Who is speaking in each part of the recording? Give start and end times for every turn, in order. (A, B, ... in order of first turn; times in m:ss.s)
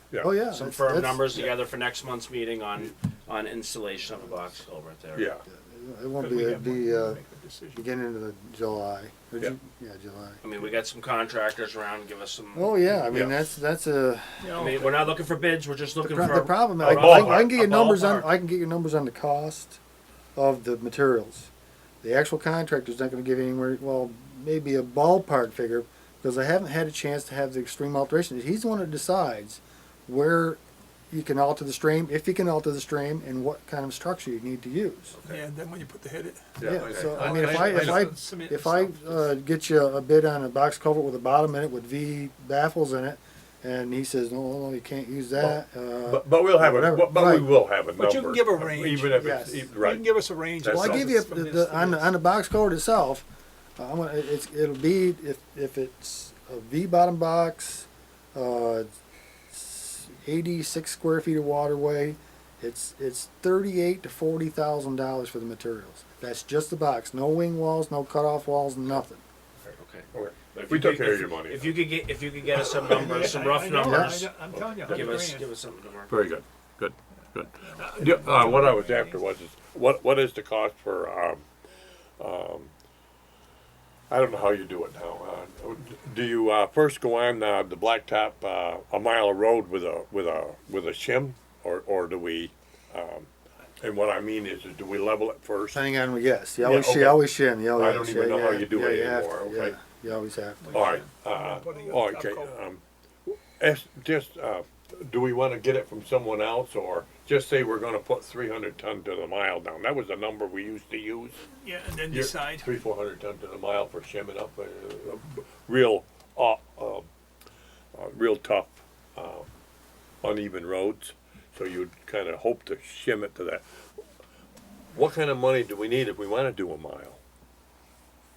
0:00.1-0:00.4 A
0:00.2-0:01.2 B
0:00.5-0:05.3 C
0:05.1-0:05.4 A
0:05.5-0:07.2 B
0:06.2-0:07.9 D
0:07.7-0:10.4 B
0:10.4-0:12.8 C
0:12.5-0:14.5 B
0:13.1-0:13.5 A
0:14.4-0:15.1 D
0:14.6-0:18.3 C
0:16.0-0:19.8 B
0:16.8-0:17.6 A
0:20.4-0:21.5 B
0:22.0-0:30.6 B
0:31.1-0:35.2 B
0:35.2-0:35.4 C
0:35.3-0:39.3 D
0:36.6-0:38.0 A
0:36.6-0:47.5 B
0:36.7-0:37.1 C
0:45.4-0:50.1 A
0:48.0-0:52.1 D
0:49.2-0:49.6 B
0:50.6-0:51.1 A
0:50.7-0:53.2 B
0:53.8-0:58.9 B
0:59.5-1:09.2 B
1:09.6-1:11.9 A
1:09.8-1:14.4 C
1:12.7-1:15.5 D
1:13.8-1:14.2 B
1:14.5-1:15.2 A
1:14.9-1:16.4 C
1:16.1-1:21.5 A
1:17.4-1:19.2 D
1:22.2-1:22.7 A
1:24.1-1:35.8 A
1:35.7-1:41.0 B
1:36.6-1:39.8 A
1:40.6-1:42.6 D
1:40.7-1:51.4 A
1:51.5-1:52.7 D
1:52.1-1:57.1 A
1:57.9-1:59.5 A
2:00.2-2:03.6 A
2:04.9-2:07.2 A